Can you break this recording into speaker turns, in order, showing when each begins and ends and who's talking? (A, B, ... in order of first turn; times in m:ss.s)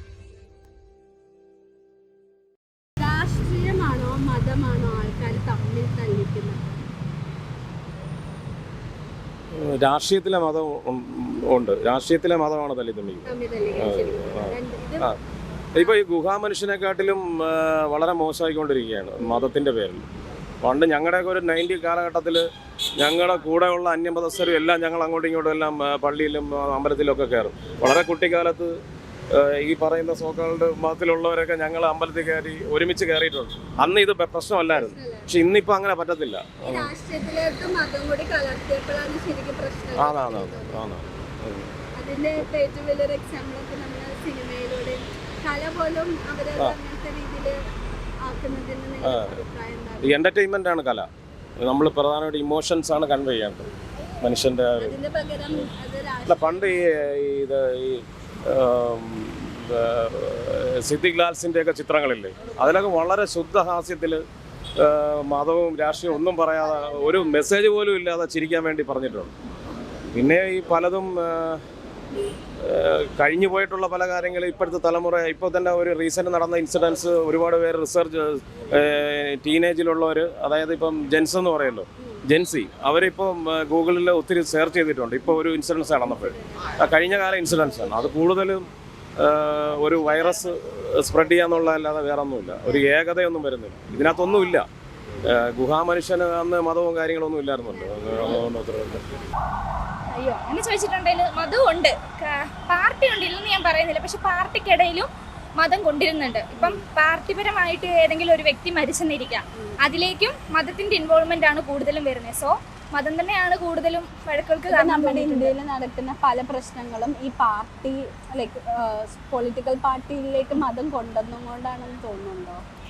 0:03.0-0:06.8 A
0:09.8-0:15.1 B
0:13.2-0:15.1 A
0:15.7-0:20.0 B
0:20.6-0:22.4 B
0:23.0-0:28.7 B
0:29.3-0:36.9 B
0:34.7-0:35.3 A
0:36.6-0:41.2 A
0:39.9-0:41.7 B
0:42.0-0:47.5 A
0:48.2-0:50.2 A
0:49.0-0:49.3 B
0:50.0-0:51.1 B
0:51.6-0:53.7 B
0:54.2-0:55.0 B
0:54.8-0:56.9 A
0:56.3-1:04.2 B
1:04.8-1:09.3 B
1:10.1-1:11.6 B
1:12.7-1:28.6 B
1:29.2-1:34.6 B
1:35.3-1:39.1 B
1:37.7-1:38.4 A
1:40.1-1:45.1 C
1:45.6-1:55.5 C
1:54.7-2:02.6 A